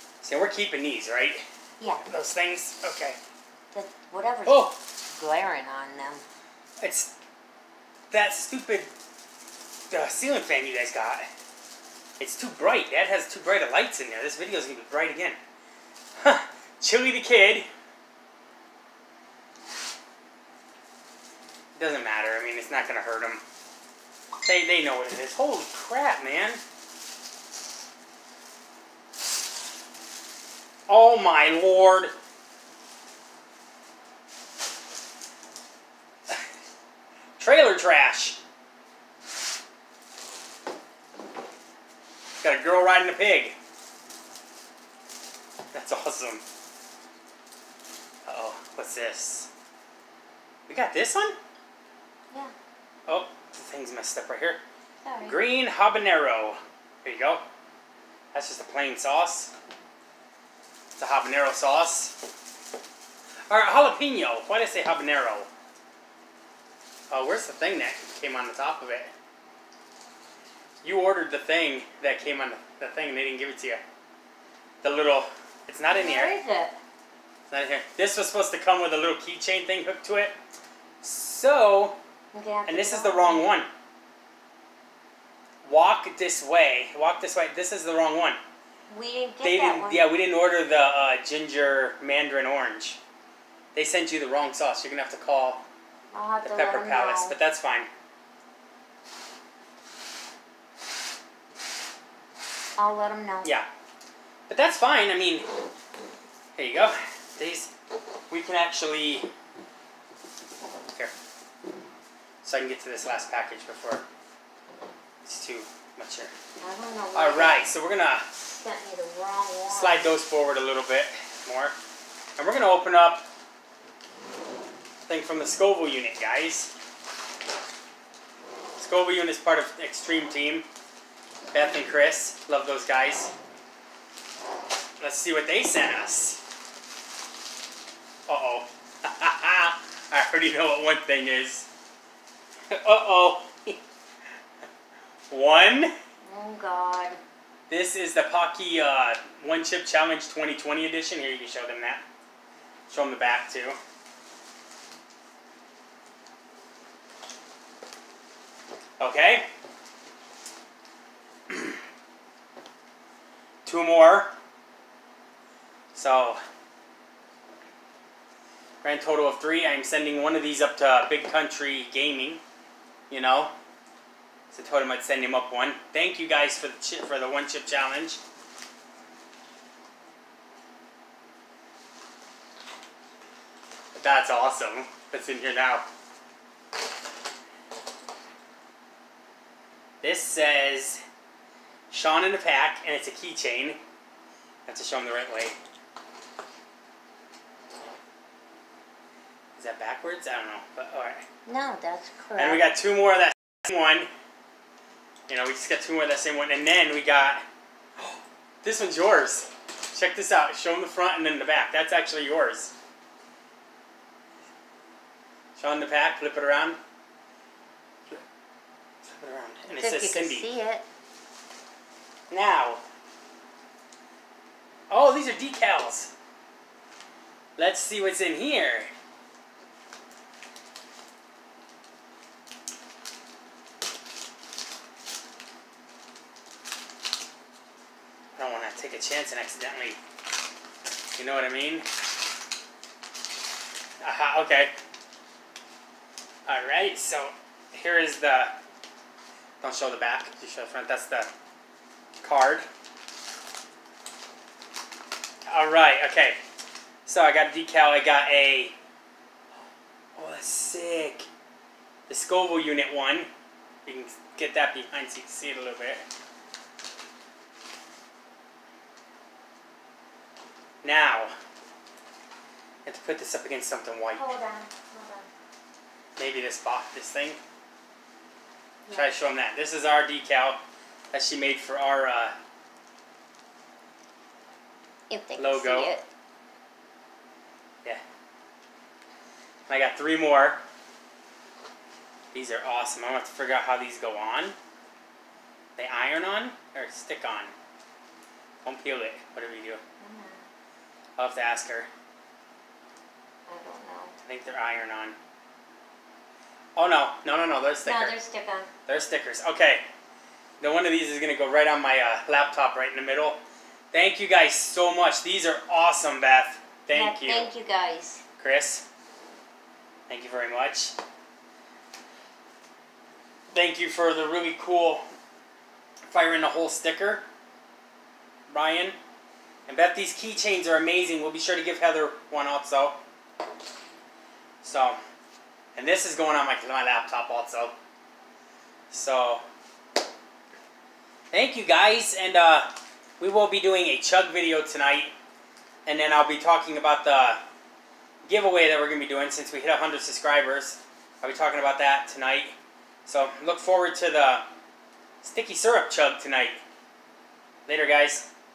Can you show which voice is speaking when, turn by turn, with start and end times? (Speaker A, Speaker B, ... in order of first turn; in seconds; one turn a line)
Speaker A: 0.2-1.4
Speaker B: 1.8-2.0
Speaker A: 2.1-3.2
Speaker B: 3.7-6.2
Speaker A: 4.4-4.8
Speaker A: 6.8-7.1
Speaker A: 8.1-8.9
Speaker A: 9.9-11.3
Speaker A: 12.2-15.4
Speaker A: 16.2-17.7
Speaker A: 21.8-23.4
Speaker A: 24.4-26.6
Speaker A: 30.9-32.1
Speaker A: 37.4-38.4
Speaker A: 42.4-43.5
Speaker A: 45.7-46.4
Speaker A: 48.2-49.5
Speaker A: 50.7-51.4
Speaker A: 53.1-54.6
Speaker B: 55.0-55.4
Speaker A: 55.2-57.4
Speaker A: 58.3-59.5
Speaker A: 61.0-62.2
Speaker A: 63.5-65.5
Speaker A: 67.1-69.1
Speaker A: 70.8-73.8
Speaker A: 74.8-76.3
Speaker B: 75.9-76.8
Speaker A: 77.5-80.3
Speaker A: 81.0-82.0
Speaker B: 82.3-83.5
Speaker A: 82.7-83.7
Speaker A: 85.6-88.4
Speaker B: 88.9-90.1
Speaker A: 89.4-93.0
Speaker A: 93.7-95.6
Speaker B: 96.1-97.3
Speaker A: 96.4-97.9
Speaker B: 102.8-103.5
Speaker A: 104.5-105.5
Speaker A: 106.5-107.7
Speaker A: 108.3-109.3
Speaker A: 112.4-114.0
Speaker A: 115.2-116.3
Speaker B: 116.6-117.7
Speaker A: 117.1-118.3
Speaker B: 118.3-120.1
Speaker A: 119.7-121.7
Speaker A: 122.4-123.2
Speaker A: 125.1-126.7
Speaker A: 128.8-130.7
Speaker A: 131.5-133.3
Speaker A: 135.0-136.4
Speaker A: 138.3-141.7
Speaker A: 142.7-143.8
Speaker A: 145.3-145.9
Speaker B: 146.2-147.2
Speaker A: 147.7-152.0
Speaker A: 152.9-153.8
Speaker A: 159.0-159.4
Speaker A: 161.5-161.8
Speaker A: 163.6-164.3
Speaker A: 165.9-166.4
Speaker A: 168.8-172.4
Speaker A: 173.1-173.5
Speaker A: 174.5-178.2
Speaker A: 184.0-185.8
Speaker A: 190.0-191.0
Speaker A: 191.9-193.8
Speaker A: 194.7-195.6
Speaker A: 199.6-201.2
Speaker B: 201.4-202.6
Speaker A: 202.3-204.1
Speaker A: 205.3-207.4
Speaker A: 208.6-212.7
Speaker A: 215.6-216.8
Speaker A: 219.1-220.5
Speaker B: 219.7-220.8
Speaker A: 222.3-222.8
Speaker A: 224.9-226.1
Speaker A: 227.6-228.9
Speaker A: 238.4-240.0
Speaker A: 241.2-241.8
Speaker A: 244.0-244.7
Speaker A: 246.4-248.5
Speaker A: 249.6-251.3
Speaker A: 252.2-252.7
Speaker A: 255.5-256.4
Speaker A: 257.1-258.7
Speaker A: 260.1-261.3
Speaker A: 262.1-263.3
Speaker A: 263.9-266.0
Speaker A: 270.8-271.3
Speaker A: 272.8-274.3
Speaker B: 274.1-275.3
Speaker A: 276.2-277.4
Speaker A: 278.9-280.6
Speaker A: 281.1-282.3
Speaker B: 285.1-286.0
Speaker A: 285.4-285.9
Speaker A: 289.7-290.6
Speaker A: 292.3-294.6
Speaker A: 295.8-297.5
Speaker A: 298.6-299.8
Speaker B: 300.0-300.4
Speaker A: 301.2-301.9
Speaker B: 303.5-304.1
Speaker A: 304.2-305.1
Speaker A: 306.8-308.2
Speaker B: 307.8-308.7
Speaker A: 308.9-309.8
Speaker A: 310.6-313.4
Speaker A: 313.9-317.5
Speaker B: 316.9-318.2
Speaker A: 318.4-318.8
Speaker A: 320.1-320.9
Speaker A: 323.5-325.0
Speaker A: 326.1-327.2
Speaker A: 328.5-328.9
Speaker A: 329.7-333.0
Speaker A: 334.6-335.0
Speaker A: 335.7-337.7
Speaker A: 338.9-339.4
Speaker A: 341.3-345.1
Speaker A: 345.9-347.4
Speaker A: 348.2-352.5
Speaker A: 353.1-354.4
Speaker A: 355.2-356.6
Speaker A: 357.7-358.3